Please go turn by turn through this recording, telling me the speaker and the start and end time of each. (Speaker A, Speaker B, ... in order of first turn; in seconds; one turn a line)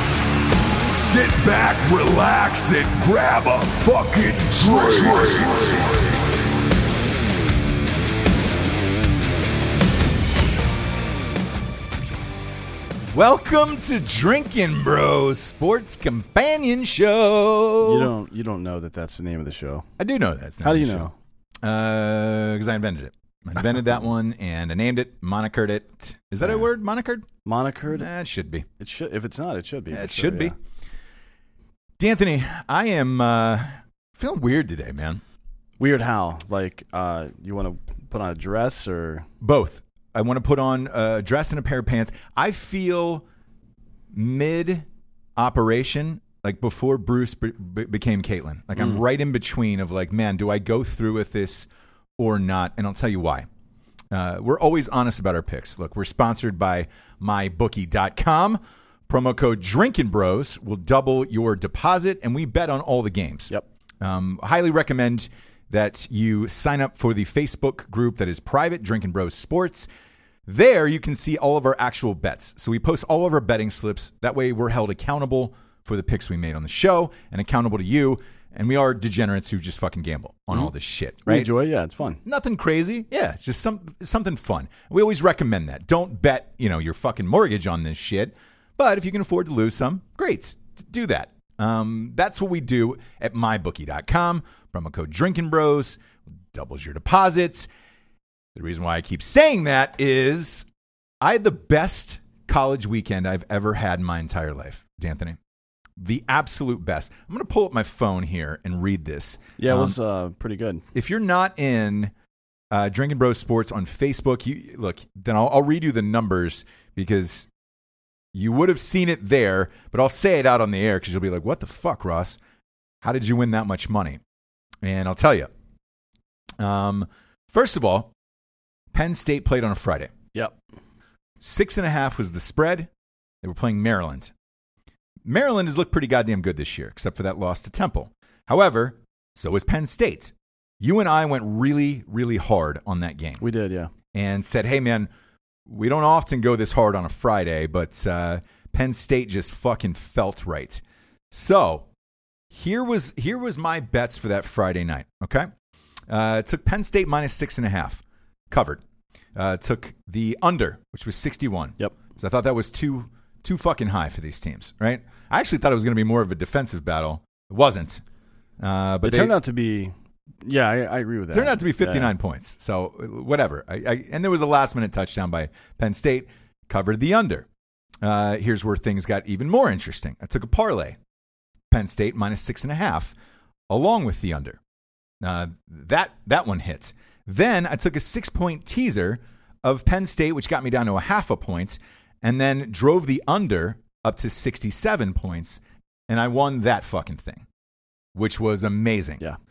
Speaker A: 0.8-6.0
Speaker B: 13.1-18.1
Speaker C: 17.8-19.9
Speaker B: 20.0-21.1
Speaker C: 20.6-21.1
Speaker B: 21.6-27.3
Speaker C: 27.4-28.1
Speaker B: 27.9-28.7
Speaker C: 28.8-30.6
Speaker B: 29.9-30.6
Speaker B: 32.0-35.2
Speaker C: 35.8-39.3
Speaker B: 39.4-43.2
Speaker B: 44.1-44.9
Speaker B: 45.4-53.5
Speaker B: 54.1-69.9
Speaker B: 70.5-81.5
Speaker C: 81.3-82.2
Speaker B: 82.2-96.0
Speaker B: 96.5-97.7
Speaker B: 98.5-100.7
Speaker B: 101.2-105.4
Speaker B: 106.0-110.0
Speaker C: 109.6-110.8
Speaker B: 110.9-112.1
Speaker B: 112.7-117.5
Speaker B: 118.3-122.4
Speaker B: 123.0-124.2
Speaker B: 124.8-125.5
Speaker B: 126.6-128.1
Speaker B: 128.9-130.1
Speaker B: 131.4-132.9
Speaker B: 133.4-134.3
Speaker B: 135.2-143.4
Speaker C: 143.4-143.9
Speaker B: 144.1-145.1
Speaker B: 145.7-151.9
Speaker B: 152.5-155.5
Speaker B: 156.1-158.8
Speaker B: 159.3-168.0
Speaker B: 168.6-169.3
Speaker C: 169.0-172.1
Speaker B: 171.3-177.5
Speaker B: 178.0-181.0
Speaker B: 181.7-183.1
Speaker B: 183.7-184.6
Speaker B: 185.2-197.5
Speaker B: 198.1-199.2